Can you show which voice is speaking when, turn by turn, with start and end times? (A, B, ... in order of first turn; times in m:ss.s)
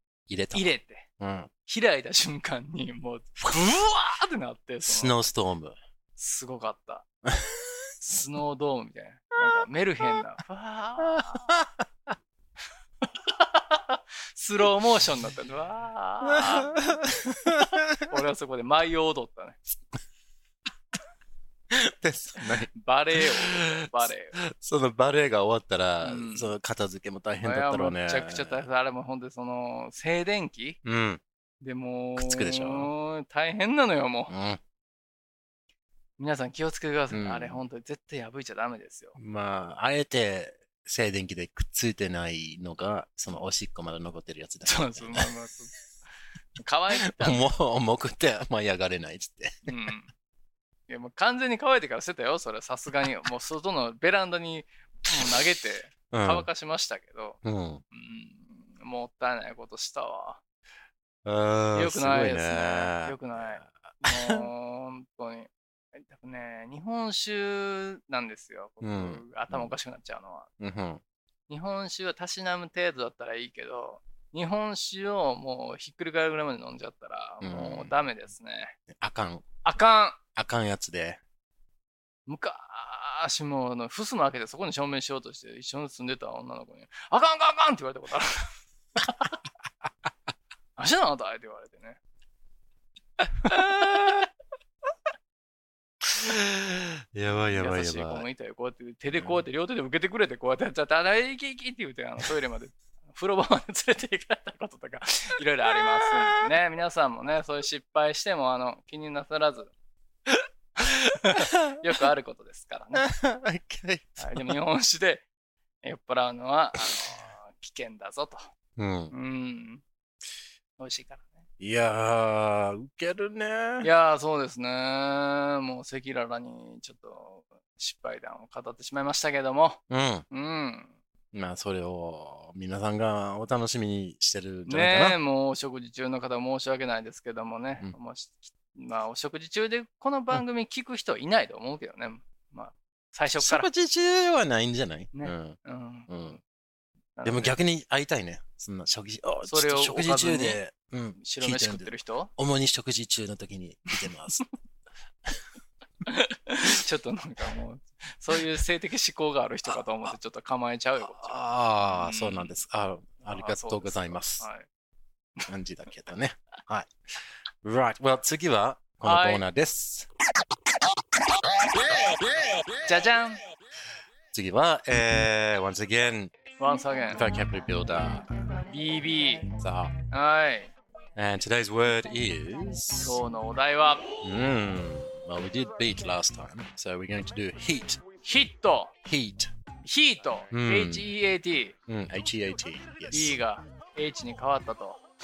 0:00.3-0:01.5 A
0:00.5-0:01.1 B
0:01.7-0:05.2 B
0:04.8-0:05.8 A
0:06.2-0:07.0 B
0:07.3-0:07.6 A
0:08.1-0:11.6 B
0:11.0-0:11.6 A
0:13.0-0:19.6 B
0:16.2-0:18.0 A
0:21.7-0:28.7 A
0:22.7-0:24.4 B
0:26.0-0:26.5 B
0:27.4-0:30.8 B
0:30.8-0:31.2 A
0:31.6-0:34.3 B
0:32.2-0:32.9 A
0:34.3-0:34.6 A
0:36.2-0:39.2 B
0:37.1-0:37.6 A
0:39.2-0:45.3 A
0:44.6-0:45.7 B
0:46.6-0:47.4 B
0:47.0-0:49.7 A
0:49.7-0:50.1 B
0:50.9-0:57.4 B
0:56.1-0:56.5 A
0:57.4-0:57.8 A
0:57.9-1:00.4 B
1:01.2-1:04.5 A
1:01.7-1:10.5 B
1:08.8-1:09.7 A
1:10.6-1:11.0 A
1:11.5-1:18.8 B
1:17.4-1:18.0 A
1:18.9-1:19.5 A
1:19.6-1:20.2 B
1:20.4-1:21.2 A
1:22.3-1:29.4 B
1:30.8-1:32.0 B
1:33.4-1:34.2 A
1:33.5-1:34.2 B
1:36.1-1:38.3 A
1:37.5-1:49.7 B
1:39.1-1:39.4 A
1:50.8-1:53.1 B
1:53.0-1:54.6 A
1:54.2-1:55.3 B
1:55.8-1:58.4 B
1:58.8-1:59.1 A
1:59.1-1:59.8 B
2:00.8-2:01.4 B
2:01.6-2:03.9 A
2:03.8-2:11.0 B
2:09.9-2:10.3 A
2:11.3-2:15.2 A
2:14.7-2:23.7 B
2:23.4-2:26.4 A
2:25.1-2:26.4 B
2:27.2-2:27.6 B
2:27.2-2:34.4 A
2:29.4-2:30.6 B
2:31.2-2:32.3 B
2:36.0-2:42.6 B
2:41.0-2:44.4 A
2:43.3-2:44.7 B
2:45.5-2:46.9 A
2:47.6-2:50.1 A
2:49.0-2:49.5 B
2:52.8-2:53.4 B
2:54.3-2:56.3 A
2:56.6-2:57.2 B
2:57.1-2:58.3 A
2:58.7-2:59.5 B
2:59.6-2:59.9 A
3:00.1-3:00.7 B
3:01.2-3:03.2 A
3:03.0-3:04.0 B
3:04.2-3:08.1 A
3:08.2-3:08.9 B
3:09.0-3:09.5 A
3:09.8-3:11.8 B
3:10.5-3:11.1 A
3:11.9-3:13.4 A
3:13.1-3:15.0 B